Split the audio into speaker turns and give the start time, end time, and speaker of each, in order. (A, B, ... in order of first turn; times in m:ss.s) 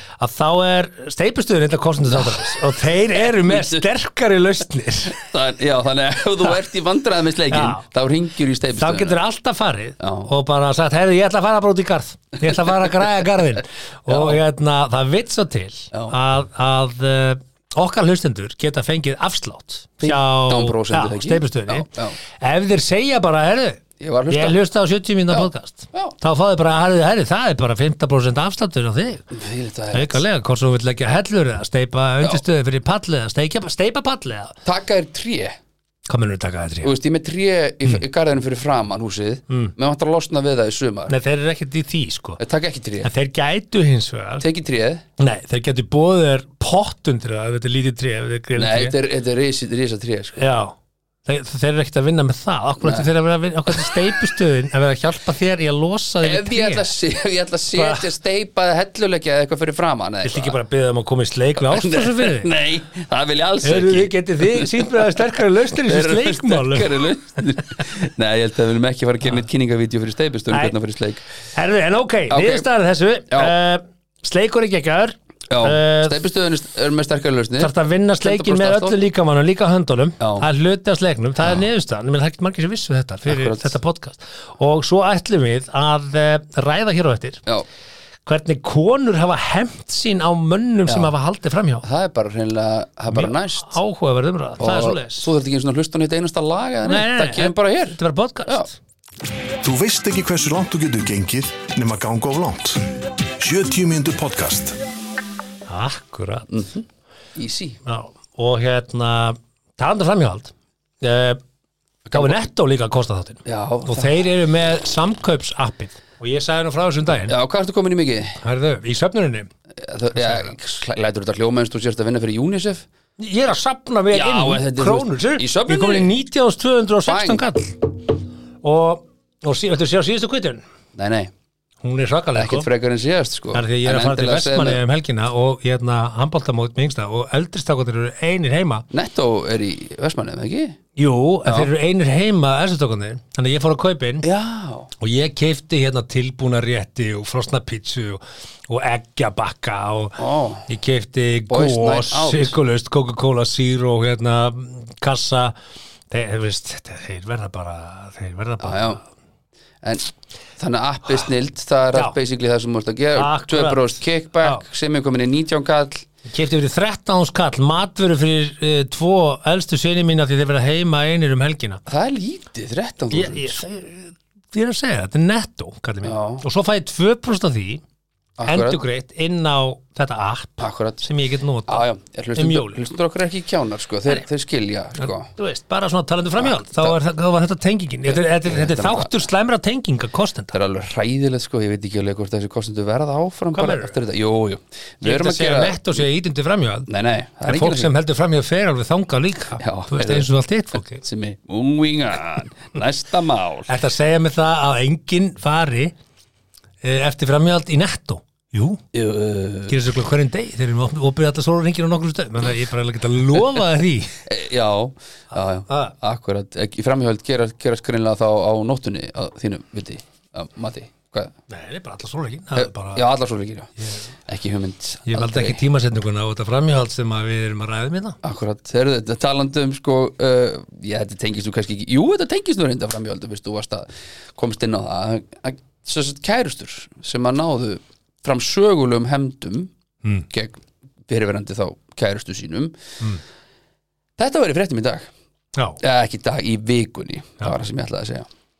0:00.2-0:05.2 A
0:02.1-0:02.6 B
0:03.1-0:03.8 B
0:05.1-0:09.2 B
0:07.5-0:07.8 A
0:08.8-0:21.9 A
0:10.0-0:10.3 B
0:14.1-0:14.4 B
0:20.0-0:22.2 B
0:22.4-0:29.2 A
0:24.0-0:24.6 B
0:25.3-0:26.1 B
0:29.3-0:30.2 B
0:29.9-0:34.5 A
0:34.6-0:35.6 B
0:36.1-0:36.9 A
0:36.8-0:41.1 B
0:41.1-0:42.4 A
0:42.4-0:43.1 B
0:43.0-0:44.4 A
0:44.4-0:45.0 B
0:45.2-0:48.9 A
0:48.6-0:50.4 B
0:50.4-0:50.7 A
0:51.2-0:56.9 A
0:52.8-0:53.1 B
0:53.7-0:54.1 B
0:56.2-1:00.6 B
0:57.7-0:58.0 A
1:00.2-1:02.5 A
1:01.6-1:05.2 B
1:03.6-1:07.0 A
1:05.7-1:11.2 B
1:11.5-1:16.2 A
1:12.3-1:12.7 B
1:15.5-1:19.0 B
1:17.6-1:27.4 A
1:20.2-1:20.4 B
1:23.3-1:23.8 B
1:28.2-1:31.8 A
1:30.9-1:31.1 B
1:31.8-1:33.8 B
1:33.1-1:35.3 A
1:34.6-1:38.7 B
1:36.8-1:38.8 A
1:39.6-1:44.8 C
1:45.7-1:46.5 A
1:46.5-1:46.8 B
1:47.4-1:47.8 B
1:47.8-1:51.4 A
1:52.1-1:52.4 B
1:52.1-1:57.3 A
1:53.4-1:54.2 B
1:57.3-1:58.4 B
1:58.4-1:59.5 A
1:59.8-2:02.8 B
2:00.2-2:00.5 A
2:03.2-2:08.1 A
2:04.1-2:06.1 B
2:07.0-2:07.4 B
2:08.6-2:10.6 A
2:10.9-2:11.3 B
2:11.8-2:12.7 A
2:12.4-2:14.8 B
2:13.5-2:18.8 A
2:18.9-2:20.8 B
2:21.0-2:24.2 A
2:24.2-2:24.9 B
2:25.0-2:35.5 A
2:30.2-2:30.7 B
2:31.5-2:32.6 B
2:36.1-2:39.0 A
2:38.6-2:39.0 B
2:40.6-2:46.0 B
2:43.1-2:44.6 A
2:46.3-2:51.8 A
2:51.9-2:53.6 B
2:53.1-2:57.8 A
2:56.0-2:56.4 B
2:58.4-2:58.8 B
2:58.4-3:02.8 A
3:00.6-3:01.0 B
3:01.7-3:05.3 B
3:05.0-3:10.5 A
3:06.4-3:07.0 B
3:08.1-3:09.2 B
3:10.5-3:16.0 B
3:13.5-3:14.0 A
3:15.0-3:16.9 A
3:16.9-3:17.9 B
3:17.4-3:21.0 A
3:19.6-3:20.3 B
3:21.0-3:23.7 B
3:23.7-3:25.9 A
3:26.8-3:28.8 A
3:28.9-3:29.8 B
3:29.7-3:34.2 A
3:34.3-3:41.3 B
3:35.7-3:35.9 A
3:41.5-3:43.0 A
3:42.6-3:43.7 B
3:43.8-3:44.1 A
3:44.2-3:45.6 B
3:45.1-3:48.2 A
3:48.2-3:59.7 B
4:00.3-4:02.8 B
4:04.2-4:05.1 B
4:05.8-4:08.3 B